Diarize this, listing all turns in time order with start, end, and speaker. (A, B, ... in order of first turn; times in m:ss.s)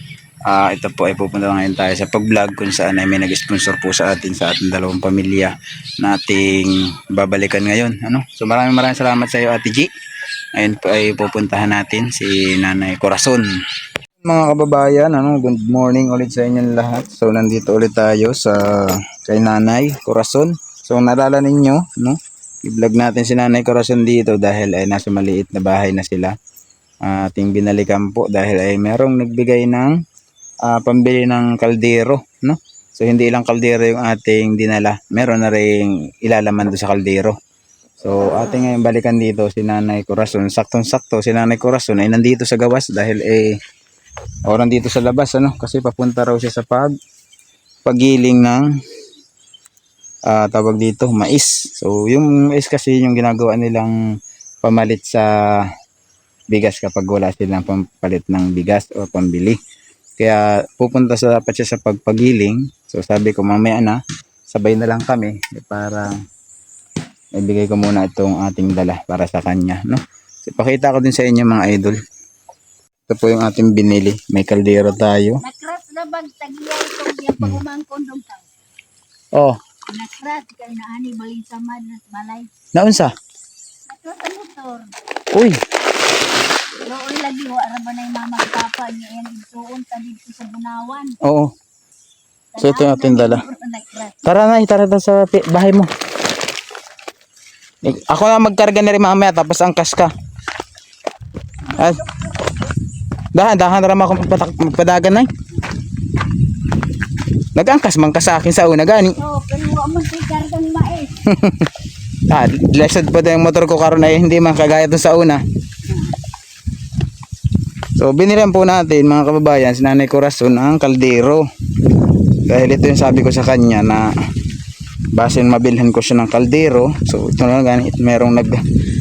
0:00.5-0:09.9 A
0:10.6-0:13.5 A
0:14.2-0:26.3 A
0:27.0-0:29.9 A
0:30.7-0:37.4 A
0:38.0-0:43.6 A
0:44.5-0:46.9 A
0:47.8-0:48.7 A
0:50.3-0:53.9 A
0:54.6-0:55.7 A
0:56.5-0:59.6 A
1:00.2-1:04.0 A
1:04.5-1:06.1 A
1:07.4-1:12.0 A
1:13.1-1:15.4 A
1:15.4-1:18.5 B
1:19.9-1:22.5 B
1:22.7-1:23.1 A
1:23.9-1:24.9 B
1:25.3-1:25.6 A
1:26.8-1:31.2 B
1:31.2-1:31.5 A
1:32.5-1:34.2 B
1:32.6-1:33.4 A
1:34.2-1:35.9 A
1:37.8-1:40.1 A
1:41.7-1:42.5 B
1:41.8-1:42.0 A
1:43.4-1:45.3 A
1:47.6-1:49.2 A
1:49.2-1:51.2 B
1:51.3-1:51.7 A
1:52.3-1:55.4 A
1:55.9-1:56.2 B
1:58.0-2:01.5 A
2:02.4-2:04.1 A
2:05.1-2:08.6 A